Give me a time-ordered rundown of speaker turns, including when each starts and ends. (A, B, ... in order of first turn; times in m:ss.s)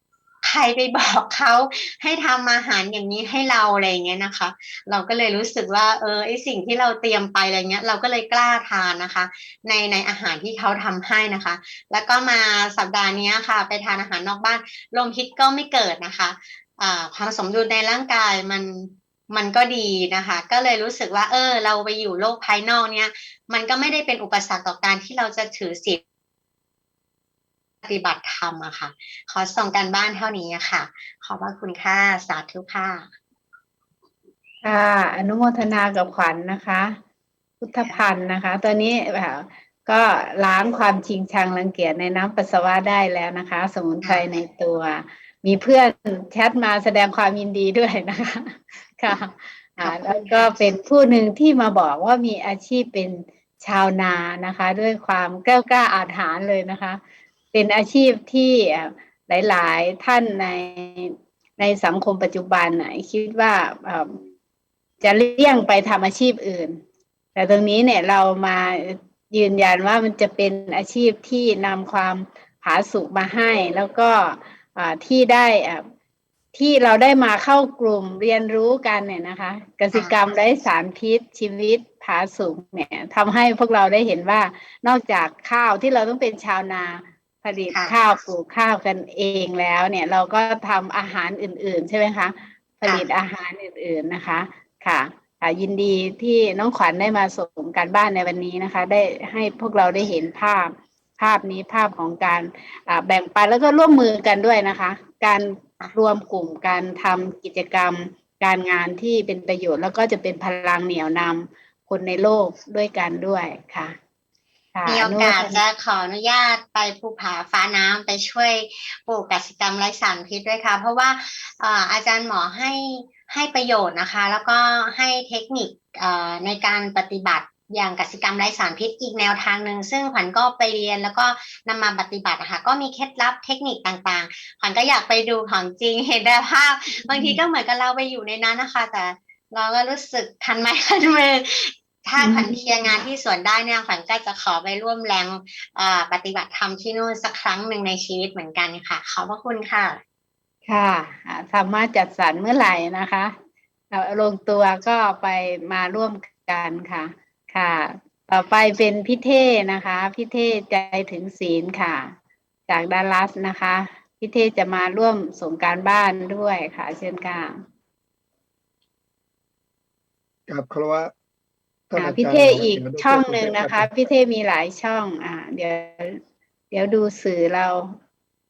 0:00.4-0:26.0 A
0:27.8-0:33.1 A
0:34.6-0:36.9 B
0:37.6-0:57.0 B
0:49.8-0:50.7 A
0:57.5-1:04.2 B
1:05.0-1:06.8 B
1:07.3-1:15.8 B
1:16.5-1:53.9 B
1:54.7-1:55.6 B
1:54.9-2:30.0 A
2:17.1-2:17.4 B
2:22.2-2:23.0 B
2:30.7-2:33.3 B
2:33.9-2:42.1 B
2:42.7-2:47.5 B
2:50.5-2:51.1 C
2:51.9-2:53.9 C
2:52.0-2:56.2 B
2:56.7-2:57.9 B